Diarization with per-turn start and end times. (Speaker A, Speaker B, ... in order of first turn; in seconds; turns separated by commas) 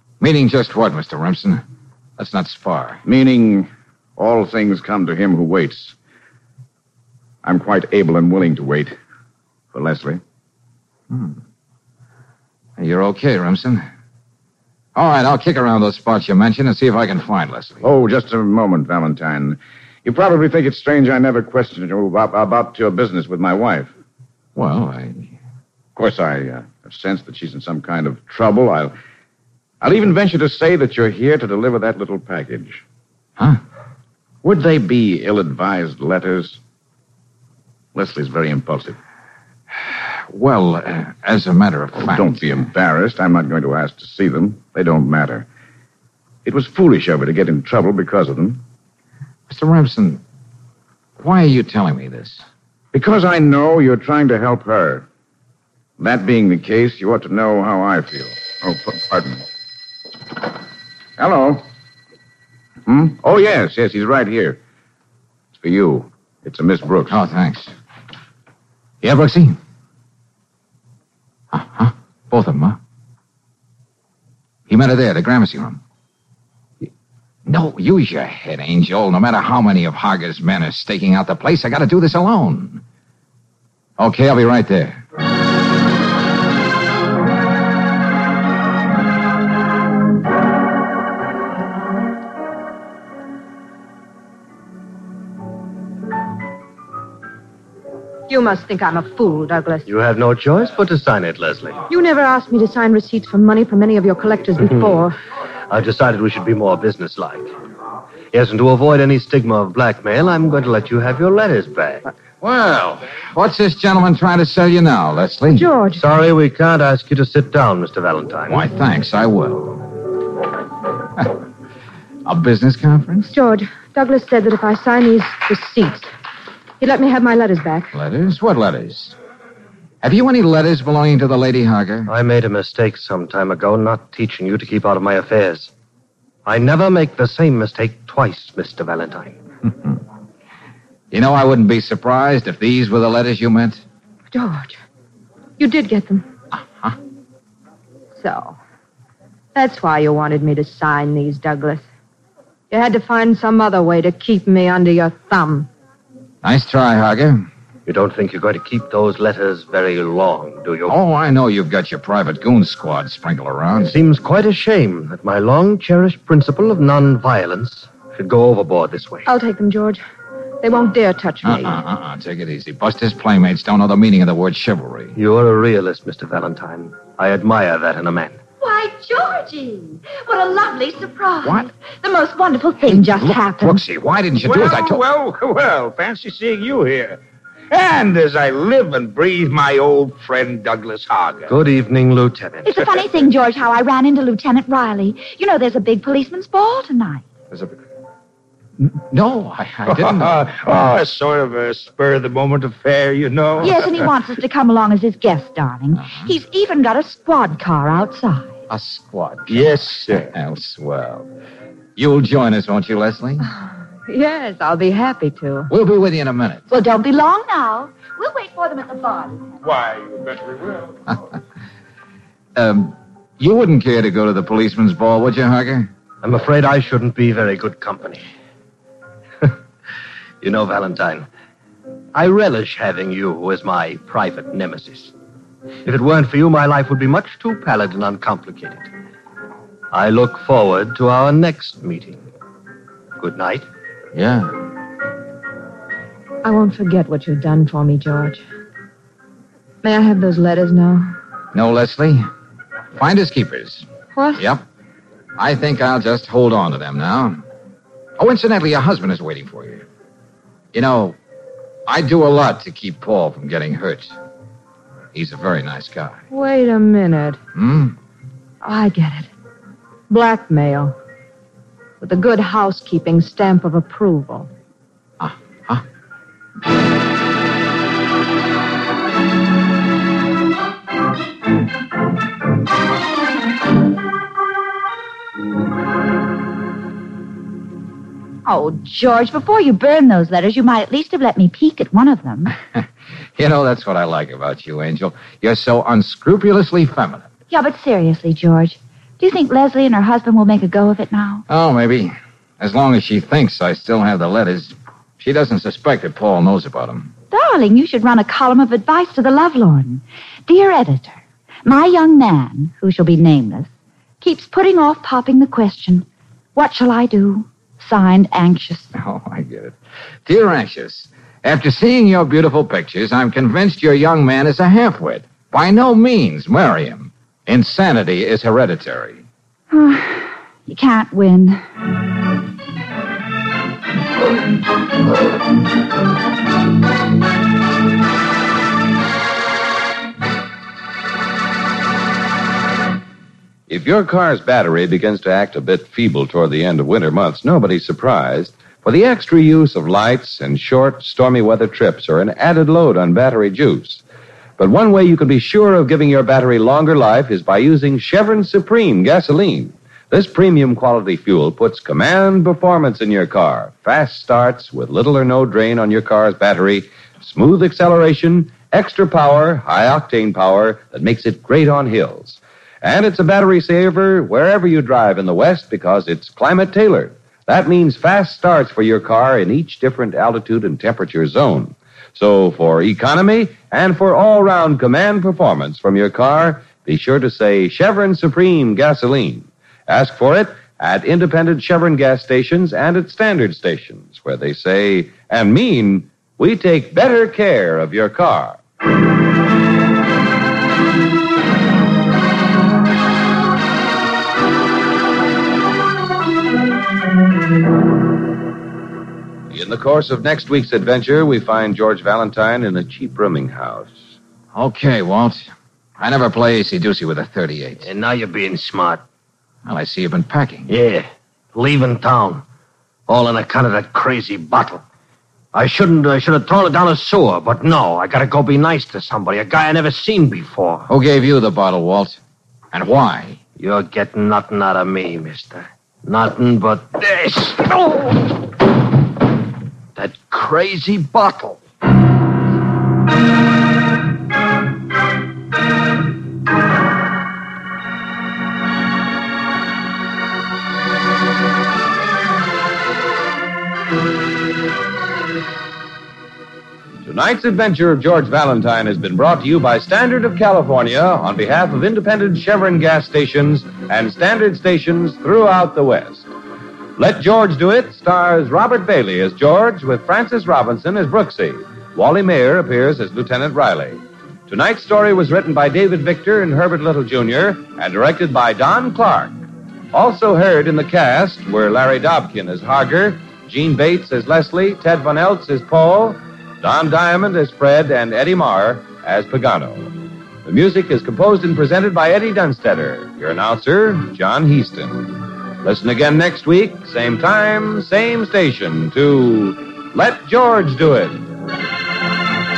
Speaker A: 0.2-1.6, Speaker A: 2.2-3.0, Speaker B: 3.0-6.0, Speaker B: 7.4-9.0, Speaker B: 9.7-10.2, Speaker A: 11.1-11.4, Speaker A: 12.8-13.8, Speaker A: 14.9-17.9, Speaker B: 17.8-23.9, Speaker A: 24.6-25.3, Speaker B: 26.0-28.9, Speaker B: 29.8-32.8, Speaker B: 34.4-36.6, Speaker B: 38.0-39.0, Speaker A: 40.3-42.6, Speaker B: 42.0-45.5, Speaker B: 46.5-48.6, Speaker A: 49.5-50.2, Speaker A: 51.2-52.4, Speaker B: 52.9-55.1, Speaker B: 56.0-59.5, Speaker B: 61.2-61.6, Speaker B: 62.9-64.6, Speaker B: 65.5-67.2, Speaker A: 67.1-67.7, Speaker A: 69.0-69.6, Speaker A: 71.5-72.8, Speaker A: 74.7-75.8, Speaker A: 77.5-82.8, Speaker A: 84.0-85.0, Speaker C: 98.3-99.9, Speaker D: 99.9-101.8, Speaker C: 101.9-105.2, Speaker D: 105.7-107.5, Speaker D: 108.3-112.1, Speaker A: 112.4-115.7, Speaker C: 115.5-116.0, Speaker D: 115.9-118.7, Speaker A: 118.5-120.0, Speaker A: 122.2-123.4, Speaker C: 123.3-126.1, Speaker C: 126.8-128.0, Speaker A: 127.9-129.2, Speaker A: 130.0-132.1, Speaker D: 132.1-135.7, Speaker D: 136.5-139.4, Speaker A: 141.1-143.8, Speaker C: 144.3-144.8, Speaker C: 145.6-146.3, Speaker C: 148.1-148.6, Speaker C: 149.5-151.8, Speaker C: 152.7-155.7, Speaker A: 156.4-157.5, Speaker D: 157.9-160.9, Speaker A: 160.9-163.9, Speaker D: 163.8-169.3, Speaker C: 169.3-170.0, Speaker C: 170.6-171.8, Speaker A: 171.4-175.2, Speaker D: 175.2-178.4, Speaker E: 178.6-183.8, Speaker A: 181.4-181.7, Speaker A: 182.9-185.0, Speaker F: 184.4-191.5, Speaker D: 191.5-192.7, Speaker E: 192.6-197.2, Speaker A: 199.1-200.4, Speaker F: 199.9-204.1, Speaker E: 203.6-208.5, Speaker A: 208.7-211.3, Speaker F: 209.5-210.3, Speaker A: 212.0-213.5, Speaker C: 213.4-215.7, Speaker A: 215.7-216.7, Speaker E: 216.7-219.5, Speaker F: 219.6-221.0, Speaker A: 222.6-225.9, Speaker D: 226.2-228.2, Speaker D: 230.4-231.3, Speaker D: 232.2-235.1, Speaker D: 235.8-238.9, Speaker D: 239.9-242.2, Speaker D: 243.2-243.7, Speaker A: 244.1-244.5, Speaker C: 246.4-248.4, Speaker C: 249.8-251.1, Speaker A: 251.5-252.3, Speaker A: 253.0-254.6, Speaker C: 254.2-254.4, Speaker A: 255.4-257.4, Speaker A: 258.2-259.8, Speaker A: 260.7-261.2, Speaker A: 261.9-264.1, Speaker A: 265.1-266.2, Speaker C: 266.3-267.4, Speaker A: 267.6-268.0, Speaker C: 268.6-269.3, Speaker C: 270.1-270.9, Speaker C: 272.0-274.5, Speaker A: 275.2-275.8, Speaker E: 288.4-292.6, Speaker A: 293.4-297.3, Speaker E: 297.5-301.4, Speaker A: 301.5-307.1, Speaker E: 307.3-313.7, Speaker E: 314.2-318.9, Speaker A: 318.9-329.3, Speaker E: 329.7-331.6, Speaker G: 343.7-354.0, Speaker G: 354.6-398.6, Speaker G: 409.5-414.2, Speaker A: 414.5-417.9, Speaker D: 417.8-419.0, Speaker A: 419.7-420.7, Speaker D: 420.7-422.4, Speaker D: 423.1-424.8, Speaker D: 425.5-430.9, Speaker A: 430.9-432.2, Speaker A: 432.7-433.4, Speaker D: 433.6-438.3, Speaker D: 440.0-441.6, Speaker G: 457.0-466.3, Speaker G: 467.0-501.3